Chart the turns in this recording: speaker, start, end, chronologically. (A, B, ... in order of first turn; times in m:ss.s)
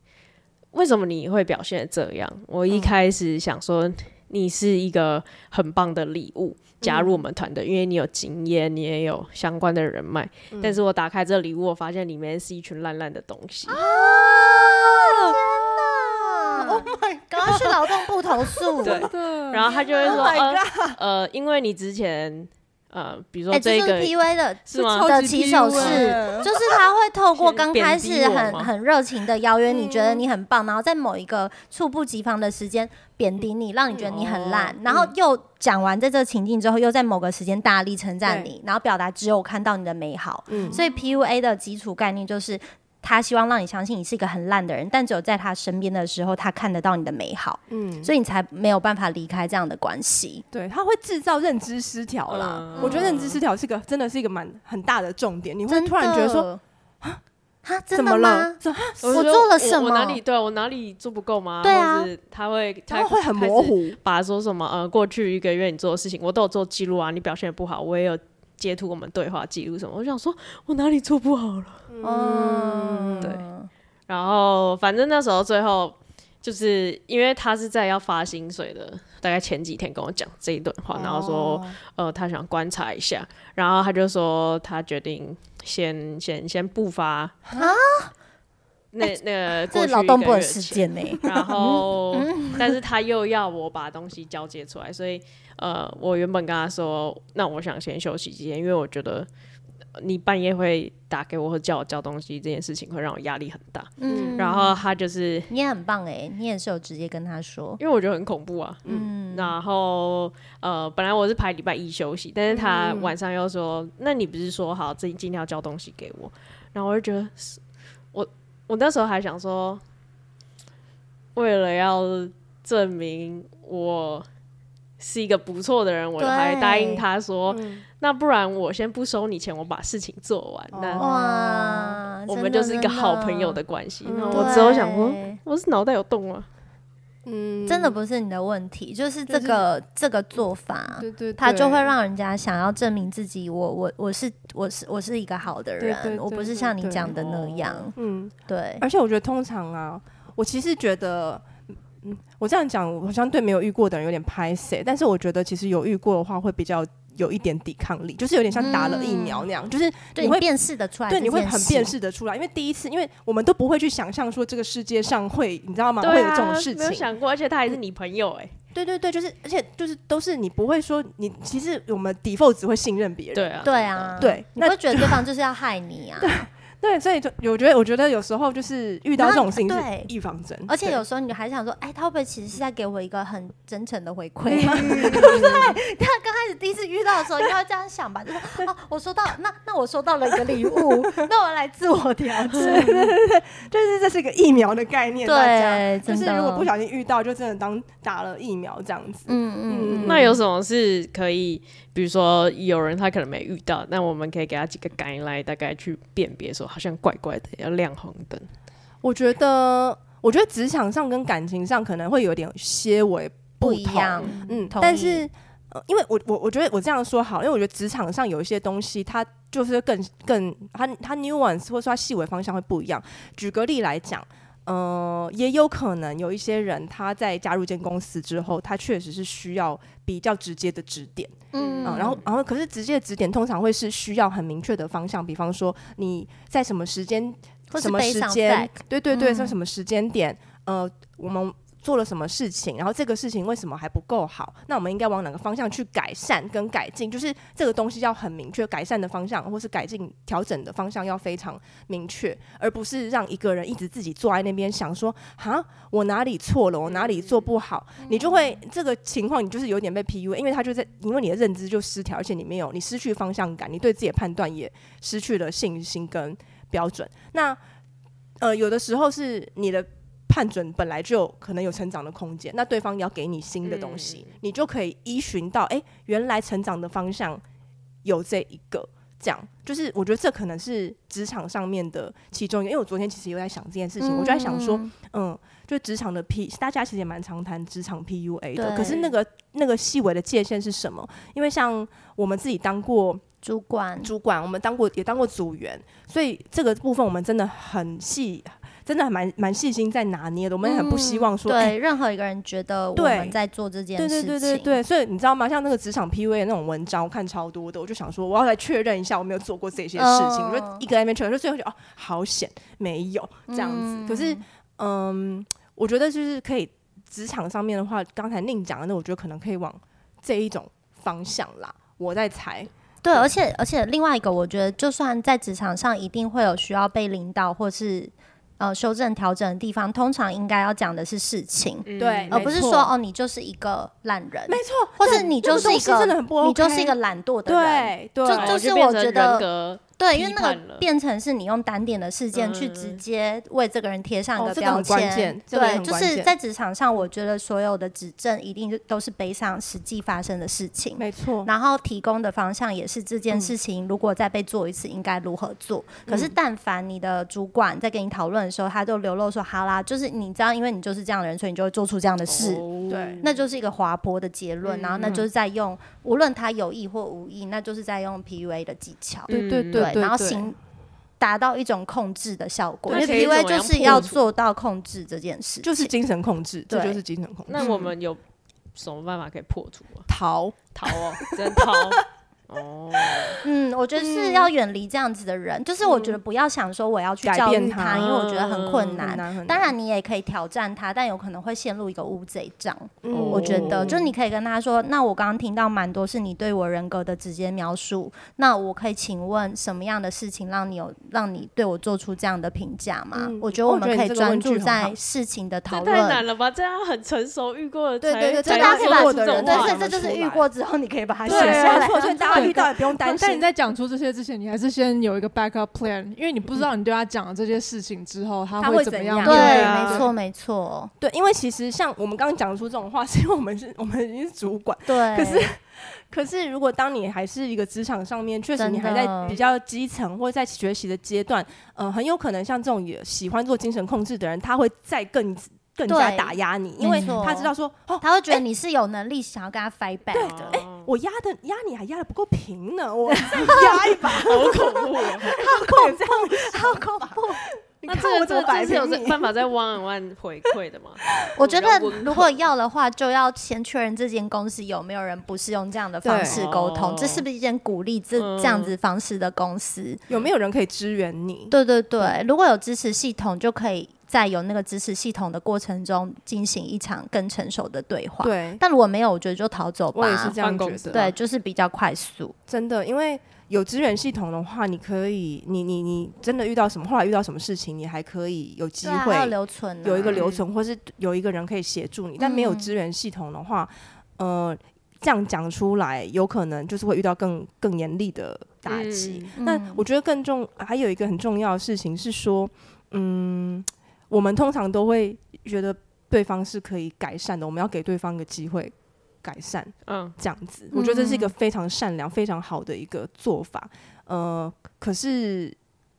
0:00.7-0:13.8 A
0:02.7-0:02.9 B
0:06.8-0:07.2 B
0:10.5-0:10.8 B
0:13.7-0:19.0 C
0:13.7-0:17.8 B
0:18.8-0:24.1 A
0:19.0-0:19.7 D
0:19.6-0:20.9 B
0:23.5-0:50.4 C
0:24.6-0:25.1 A
0:24.7-0:26.5 D
0:25.7-0:26.2 A
0:26.2-0:26.5 B
0:27.3-0:28.7 A
0:29.7-0:30.2 B
0:33.9-0:34.8 A
0:38.2-0:38.5 B
0:40.5-0:40.8 B
0:40.6-0:40.8 A
0:47.7-0:48.1 B
0:50.5-0:56.5 B
0:52.3-0:53.4 A
0:52.8-0:53.2 C
0:55.7-0:56.6 C
0:57.6-1:00.2 C
0:57.9-0:59.2 B
0:59.0-1:11.8 A
1:01.6-1:02.1 C
1:02.9-1:04.0 B
1:11.9-1:13.3 B
1:12.0-1:13.7 C
1:14.1-1:27.5 A
1:20.9-1:21.8 B
1:27.5-1:27.8 B
1:27.6-1:28.1 C
1:28.9-1:39.3 A
1:29.7-1:32.7 C
1:31.2-1:31.7 B
1:39.9-1:45.5 A
1:44.0-1:44.8 C
1:44.1-1:44.4 B
1:45.5-1:47.8 C
1:47.8-1:57.6 A
1:48.8-1:49.5 C
1:52.5-1:53.2 B
1:58.1-1:59.8 A
2:01.3-2:04.3 A
2:05.0-2:11.1 A
2:06.2-2:07.0 C
2:07.5-2:07.8 B
2:10.7-2:11.6 B
2:11.0-2:13.6 C
2:11.7-2:16.5 A
2:14.0-2:14.8 B
2:14.3-2:15.4 C
2:17.2-2:18.0 B
2:17.6-2:27.9 C
2:19.3-2:19.6 B
2:21.0-2:21.9 B
2:25.8-2:27.2 B
2:27.1-2:27.8 A
2:28.0-2:40.4 B
2:28.5-2:28.8 C
2:38.6-2:39.4 C
2:40.1-2:41.9 C
2:41.1-2:47.1 B
2:46.0-2:48.5 A
2:48.7-2:53.6 B
2:53.3-2:54.2 A
2:53.6-2:56.3 C
2:54.2-2:55.2 B
2:56.2-3:01.0 B
2:59.2-3:00.1 C
3:00.7-3:13.1 C
3:04.5-3:05.7 B
3:10.7-3:11.3 B
3:12.5-3:20.4 B
3:15.2-3:16.7 C
3:19.3-3:20.4 C
3:20.0-3:28.5 A
3:29.0-4:27.6 B
3:33.6-3:35.3 C
3:51.5-3:52.2 C
3:51.6-3:52.2 A
3:57.7-3:59.5 C
4:16.8-4:17.5 A
4:18.0-4:18.5 C
4:28.4-4:37.4 B
4:33.6-4:34.3 A
4:38.0-4:53.2 B
4:44.0-4:44.9 C
4:48.6-4:49.1 C
4:53.4-4:54.1 C
4:54.0-5:01.8 B
5:00.6-5:04.8 C
5:03.0-5:03.4 B
5:04.0-5:23.3 B
5:10.0-5:10.8 C
5:13.5-5:14.4 C
5:23.0-5:39.4 C
5:31.8-5:32.6 A
5:32.0-5:32.9 B
5:34.5-5:38.6 B
5:38.3-5:40.8 A
5:40.0-6:02.6 C
5:42.3-5:43.0 A
5:44.4-5:46.3 B
5:51.0-5:51.5 B
5:56.1-5:56.3 B
6:02.3-6:03.2 A
6:02.9-6:03.2 B
6:03.2-6:10.6 C
6:04.6-6:05.2 A
6:09.3-6:09.9 A
6:09.3-6:10.4 D
6:11.2-6:15.9 C
6:12.9-6:14.1 B
6:12.9-6:14.2 A
6:15.6-6:17.9 B
6:16.7-6:17.0 C
6:17.5-6:18.2 A
6:18.7-6:20.1 A
6:20.1-6:21.9 B
6:20.7-6:23.4 A
6:23.1-6:23.4 B
6:23.4-6:46.2 C
6:24.0-6:24.5 B
6:27.2-6:28.1 B
6:27.9-6:29.0 A
6:29.0-6:29.7 B
6:33.0-6:34.0 B
6:33.1-6:34.0 A
6:43.1-6:44.9 B
6:45.7-6:49.8 A
6:48.0-6:50.4 B
6:48.4-6:52.6 C
6:51.3-6:53.5 B
6:51.3-7:00.1 D
6:58.6-7:00.1 B
6:59.2-7:00.9 C
6:59.2-7:00.0 A
7:01.0-7:18.4 B
7:04.8-7:05.4 C
7:08.6-7:09.4 C
7:15.9-7:20.6 C
7:20.1-7:27.2 B
7:20.2-7:20.9 A
7:23.3-7:23.8 C
7:23.5-7:25.4 A
7:25.2-7:27.4 C
7:27.8-7:29.3 B
7:27.9-7:32.5 A
7:31.4-7:40.0 C
7:36.0-7:36.4 B
7:36.2-7:37.2 A
7:38.2-7:38.7 A
7:40.1-7:42.1 B
7:41.5-7:50.4 C
7:48.2-7:48.6 B
7:49.9-7:51.0 B
7:50.2-7:51.1 A
7:50.9-7:52.3 C
7:52.5-8:25.6 B
7:58.8-8:00.2 C
8:00.0-8:00.4 A
8:02.2-8:02.7 C
8:08.7-8:09.3 A
8:09.4-8:09.8 C
8:19.9-8:20.2 A
8:20.7-8:21.3 C